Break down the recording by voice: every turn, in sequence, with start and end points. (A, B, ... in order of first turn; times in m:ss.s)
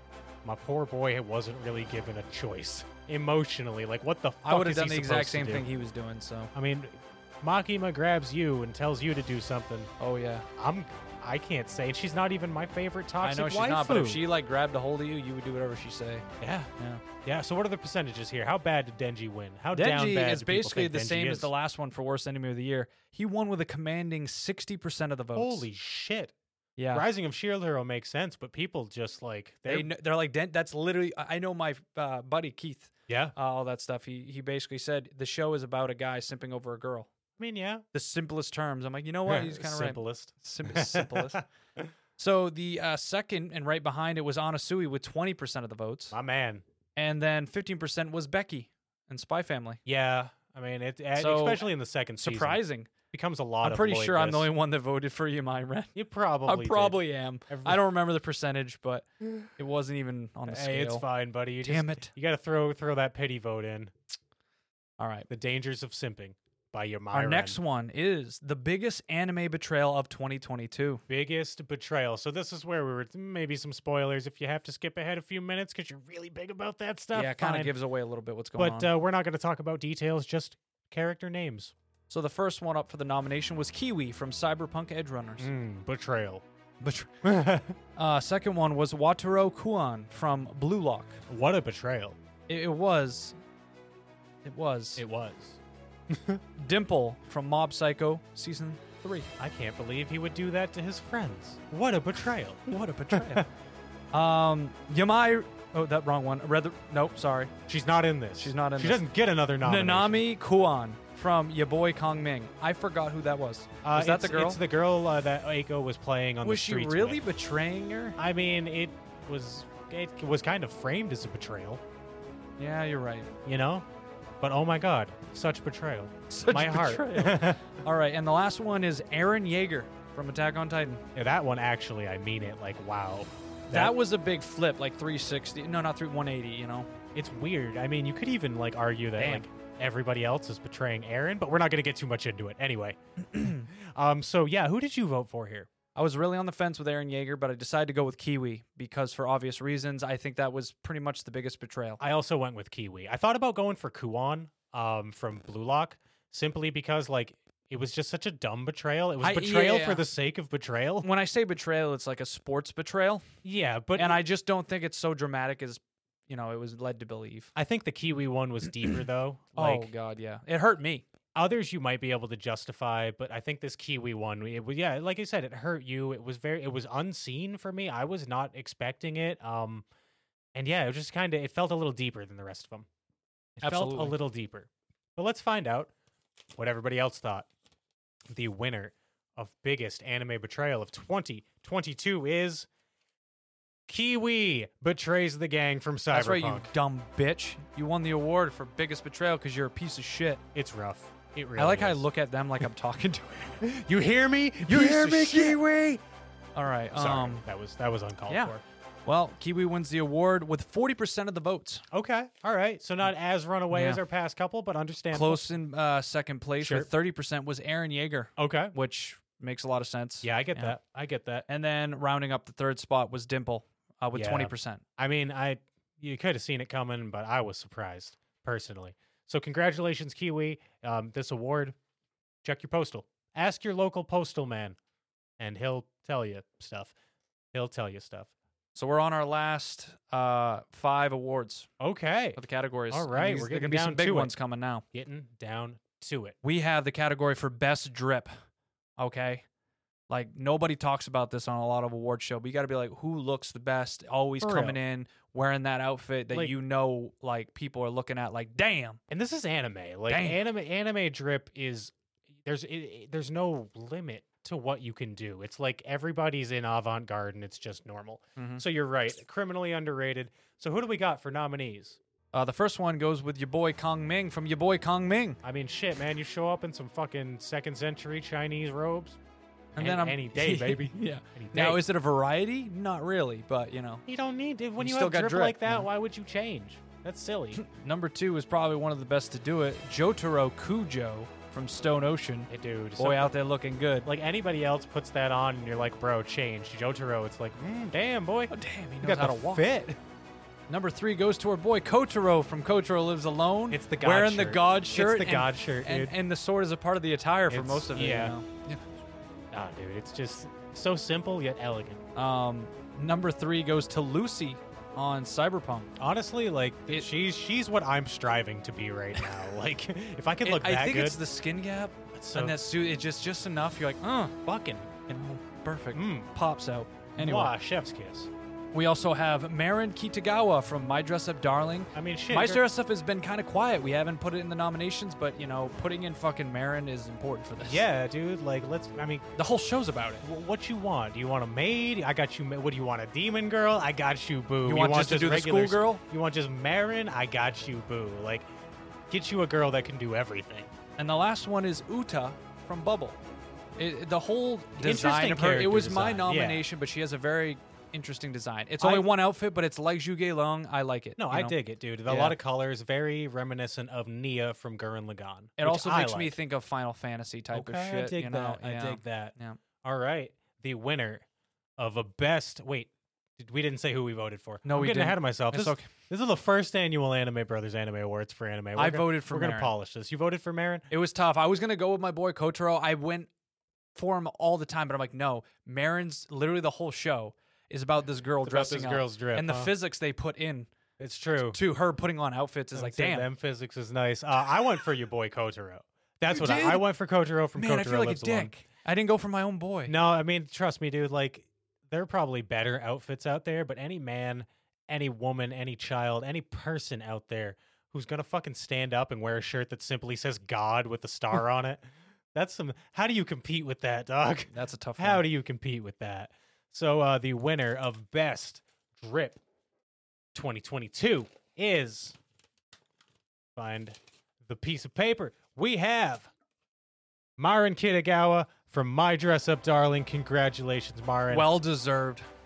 0:00.4-0:05.7 A
0:04.4-0:06.5 B
0:06.5-0:09.9 A
0:10.0-0:10.5 B
0:10.6-0:14.2 A
0:13.2-0:16.3 B
0:16.4-0:16.7 A
0:16.8-0:17.0 B
0:17.2-0:21.5 A
0:19.7-0:25.7 B
0:25.4-0:26.3 A
0:26.8-0:27.1 B
0:26.9-0:29.9 A
0:29.7-0:37.1 B
0:33.1-0:33.3 A
0:37.4-0:37.8 A
0:37.9-0:41.4 B
0:39.3-0:41.9 A
0:42.2-0:46.2 B
0:46.1-0:46.6 A
0:47.0-0:49.8 B
0:49.9-0:54.5 A
0:51.2-0:51.7 B
0:52.2-0:52.9 B
0:53.6-0:55.9 B
0:56.0-0:57.8 A
0:56.5-1:01.0 B
1:00.5-1:03.9 A
1:01.6-1:02.1 B
1:05.0-1:05.3 B
1:05.3-1:07.6 A
1:07.1-1:11.0 B
1:11.1-1:17.7 A
1:17.1-1:18.9 B
1:18.6-1:21.7 A
1:22.1-1:25.5 B
1:25.4-1:26.4 A
1:26.8-1:27.1 B
1:27.2-1:27.8 A
1:28.0-1:31.2 B
1:31.3-1:32.2 A
1:32.5-1:33.4 B
1:34.4-1:35.0 B
1:35.0-1:36.4 A
1:36.6-1:39.3 B
1:39.4-1:43.5 A
1:42.7-1:43.5 B
1:44.1-1:47.5 B
1:47.7-1:50.2 A
1:48.4-1:49.0 B
1:49.6-1:54.6 B
1:53.8-1:57.2 A
1:56.4-1:58.2 B
1:58.2-2:01.8 A
2:02.6-2:03.3 B
2:03.4-2:03.8 A
2:04.4-2:07.7 A
2:06.3-2:11.0 B
2:11.2-2:14.0 A
2:13.7-2:16.9 B
2:17.2-2:25.7 A
2:19.2-2:19.5 B
2:26.0-2:32.0 B
2:32.0-2:41.1 A
2:39.2-2:40.1 B
2:41.0-2:43.3 B
2:43.4-2:44.2 A
2:44.0-2:47.5 B
2:47.6-2:49.9 A
2:49.6-2:51.1 B
2:51.4-2:59.9 A
3:00.6-3:02.9 A
3:03.6-3:04.2 B
3:03.6-3:05.9 A
3:06.6-3:07.5 A
3:08.3-3:12.7 A
3:13.9-3:16.7 A
3:16.1-3:20.4 B
3:20.5-3:22.0 A
3:21.6-3:23.6 B
3:23.6-3:26.0 A
3:24.6-3:25.6 B
3:26.6-3:27.4 B
3:26.9-3:28.6 A
3:28.3-3:31.9 B
3:31.9-3:35.4 A
3:33.7-3:34.0 B
3:35.1-3:40.8 B
3:36.6-3:36.9 A
3:38.4-3:38.7 A
3:40.2-3:41.5 A
3:41.5-3:44.8 B
3:44.1-3:51.8 A
3:52.4-3:54.8 A
3:55.4-3:56.9 A
3:57.5-3:58.3 A
3:58.7-4:01.7 B
4:01.8-4:02.4 A
4:02.4-4:04.8 B
4:02.9-4:04.3 A
4:04.9-4:06.4 A
4:06.4-4:08.3 B
4:09.0-4:09.4 B
4:10.1-4:19.0 B
4:14.4-4:14.8 A
4:19.1-4:32.0 A
4:20.1-4:20.4 B
4:28.4-4:28.6 B
4:32.3-4:35.4 B
4:35.4-4:39.2 A
4:39.8-4:44.0 B
4:39.8-4:41.8 A
4:44.1-4:47.6 A
4:44.8-4:45.9 B
4:47.6-4:54.1 B
4:52.5-4:53.3 A
4:54.0-5:00.0 A
4:58.5-4:59.6 B
5:00.7-5:08.8 B
5:03.7-5:06.1 A
5:07.5-5:08.4 A
5:09.5-5:12.0 A
5:12.2-5:15.9 B
5:16.0-5:21.2 A
5:20.4-5:24.4 B
5:22.1-5:22.6 A
5:24.4-5:24.9 A
5:25.1-5:27.5 B
5:25.9-5:26.3 A
5:27.2-5:28.3 A
5:28.7-5:37.8 B
5:31.9-5:32.6 A
5:37.6-5:39.3 A
5:39.4-5:40.2 B
5:40.2-5:48.5 A
5:44.6-5:46.0 B
5:49.1-5:50.7 A
5:51.0-5:53.2 B
5:53.8-6:02.4 B
5:54.8-5:56.6 A
5:58.8-5:59.1 A
6:01.2-6:06.4 A
6:05.6-6:09.6 B
6:07.5-6:11.2 A
6:11.8-6:20.9 A
6:14.6-6:15.9 B
6:18.8-6:19.7 B
6:20.9-6:23.3 B
6:24.0-6:30.7 B
6:28.4-6:29.7 A
6:31.0-6:31.6 A
6:31.5-6:33.3 B
6:32.7-6:38.5 A
6:36.3-6:36.8 B
6:37.6-6:39.9 B
6:39.9-6:51.8 A
6:52.3-6:59.4 A
6:54.5-6:55.2 B
7:00.3-7:02.2 A
7:03.6-7:06.3 A
7:07.4-7:11.6 A
7:11.3-7:12.2 B